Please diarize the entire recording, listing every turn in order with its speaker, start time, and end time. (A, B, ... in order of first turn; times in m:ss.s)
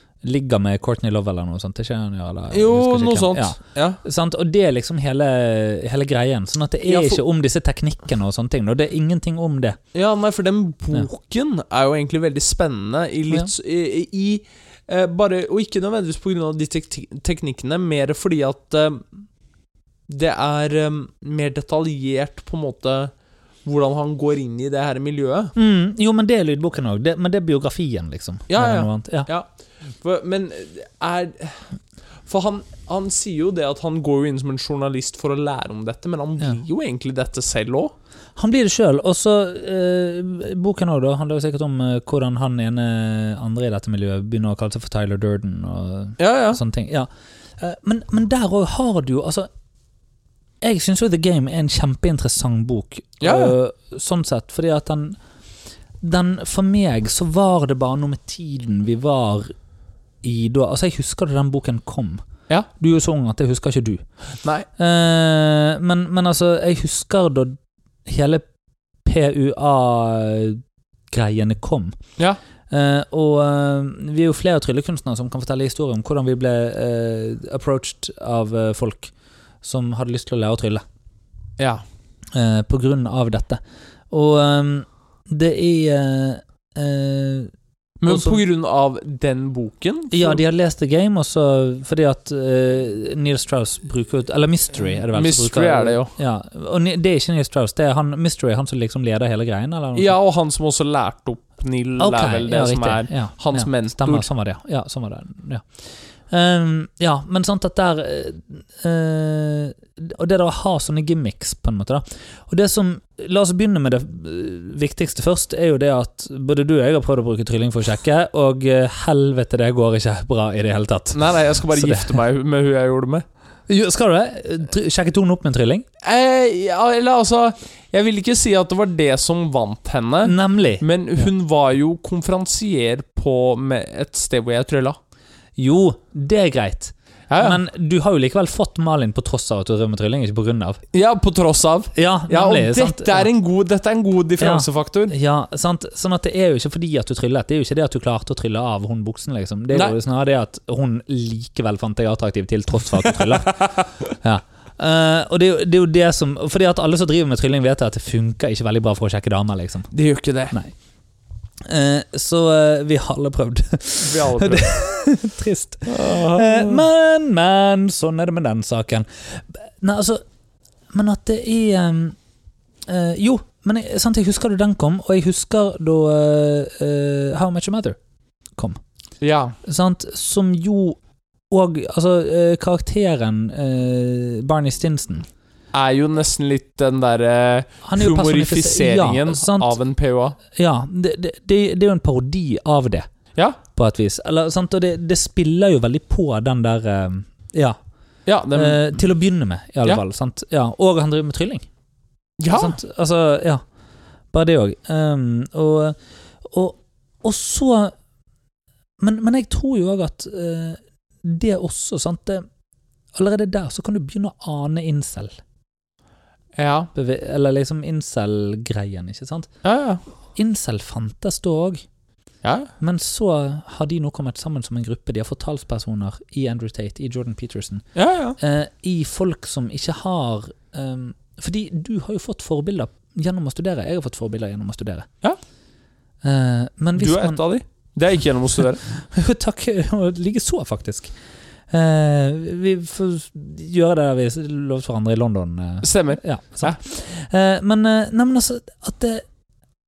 0:00.2-0:09.8 A
0:02.5-0:04.0 B
0:06.9-0:07.2 B
0:09.9-0:19.1 B
0:20.1-0:23.1 B
0:23.6-0:25.5 B
0:25.6-0:29.3 A
0:28.5-0:31.7 B
0:32.3-0:37.9 B
0:38.4-0:49.5 A
0:46.2-0:46.6 B
0:50.6-0:55.2 A
0:53.2-0:53.5 B
0:56.0-0:59.5 A
1:00.2-1:02.2 A
1:02.8-1:04.0 A
1:04.8-1:08.5 A
1:09.0-1:12.0 A
1:12.7-1:19.1 A
1:19.6-1:20.8 A
1:22.3-1:27.5 A
1:28.0-1:30.4 B
1:28.1-1:28.4 A
1:30.1-1:40.2 A
1:35.1-1:36.1 B
1:40.0-1:44.3 B
1:42.0-1:45.7 A
1:46.3-2:02.2 A
2:01.1-2:03.2 B
2:03.7-2:05.9 A
2:06.0-2:15.0 B
2:10.2-2:10.8 A
2:15.6-2:20.8 A
2:17.3-2:17.6 B
2:20.9-2:25.2 B
2:22.0-2:23.3 A
2:24.4-2:39.9 A
2:33.1-2:34.1 B
2:39.9-2:40.6 B
2:41.6-2:50.2 A
2:44.0-2:44.7 B
2:45.9-2:46.8 B
2:50.9-2:52.2 A
2:52.9-2:58.0 A
2:59.2-2:59.6 B
2:59.6-3:01.0 A
3:01.5-3:05.3 A
3:05.7-3:10.4 B
3:07.8-3:09.8 A
3:10.5-3:13.1 A
3:13.8-3:17.8 A
3:18.3-3:18.8 B
3:18.5-3:21.7 A
3:22.4-3:22.8 B
3:22.5-3:23.6 A
3:24.3-3:27.9 A
3:29.0-3:32.4 A
3:33.2-3:35.4 A
3:36.6-3:36.9 B
3:36.9-3:39.5 A
3:39.6-3:40.0 B
3:40.4-3:41.8 A
3:42.4-3:42.7 B
3:42.8-3:47.8 A
3:48.0-3:48.4 B
3:48.4-3:55.1 A
3:56.2-3:57.4 A
3:57.0-3:58.8 B
3:58.8-4:01.1 A
4:01.7-4:09.2 A
4:05.8-4:06.8 B